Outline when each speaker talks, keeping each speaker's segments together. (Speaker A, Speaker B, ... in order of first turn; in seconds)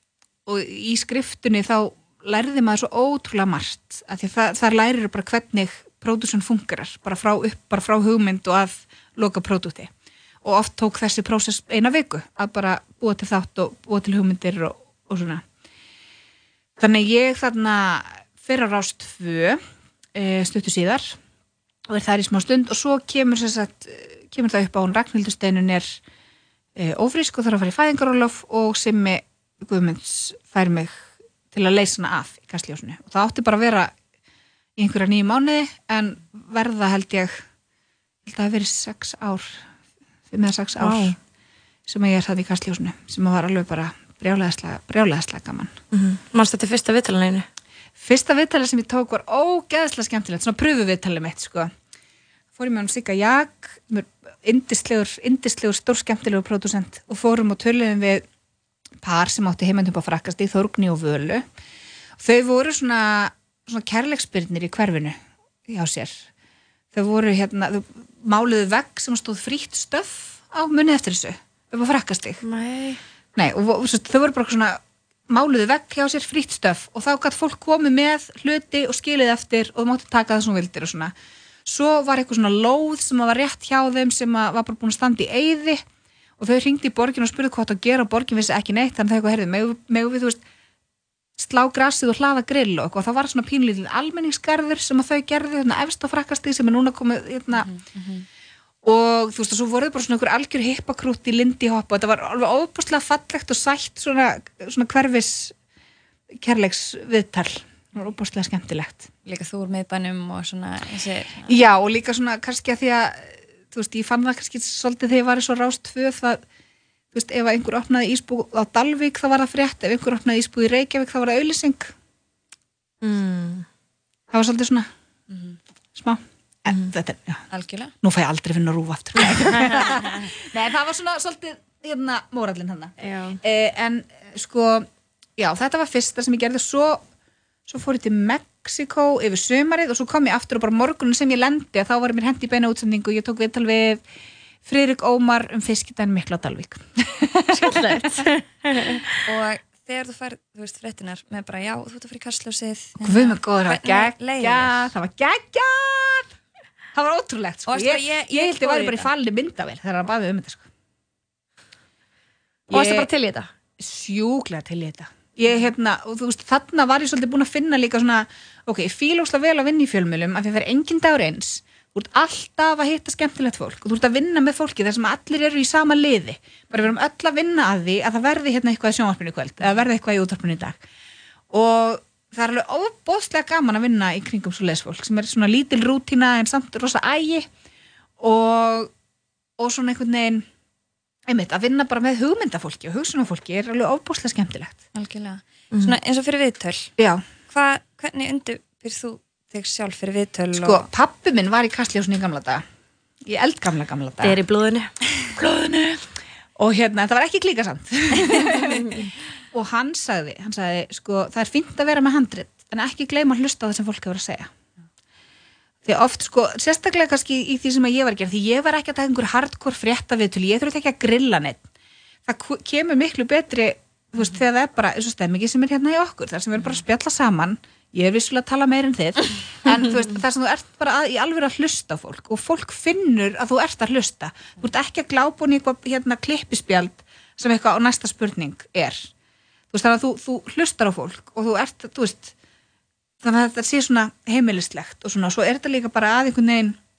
Speaker A: 0.5-9.9, 10.4-15.4, 16.8-19.6, 20.1-21.2, 21.9-26.0, 26.8-33.9, 34.8-37.4, 38.2-39.6, 40.3-41.2, 41.9-45.8, 48.0-51.7, 52.6-58.3, 59.0-61.5, 62.2-66.3, 66.9-72.4, 73.4-81.1, 81.7-85.8, 86.4-90.4, 91.4-97.7, 98.8-105.5, 106.3-109.1, 111.5-116.4, 117.1-121.9, 124.3-124.9, 126.0-127.4, 128.0-137.0, 137.7-144.0, 144.7-148.2, 153.0-156.3, 156.9-160.7, 162.7-163.1, 163.8-180.8, 181.5-187.5, 188.2-188.9, 189.6-190.5, 191.3-194.8, 197.0-197.2, 200.5-202.6, 203.2-204.4, 205.3-206.1, 206.6-214.5, 215.8-221.6, 222.3-239.1, 239.7-242.3, 243.2-246.8
Speaker B: 40.8-41.1, 45.9-47.5, 72.4-73.0, 123.0-123.7, 133.0-133.4, 147.7-148.9, 162.7-163.5, 195.7-196.0, 204.2-204.9, 208.7-209.1
Speaker C: 97.5-98.3, 109.2-111.6, 125.3-125.6, 127.5-127.9, 147.5-154.9, 157.7-159.1, 194.9-196.9, 197.5-200.9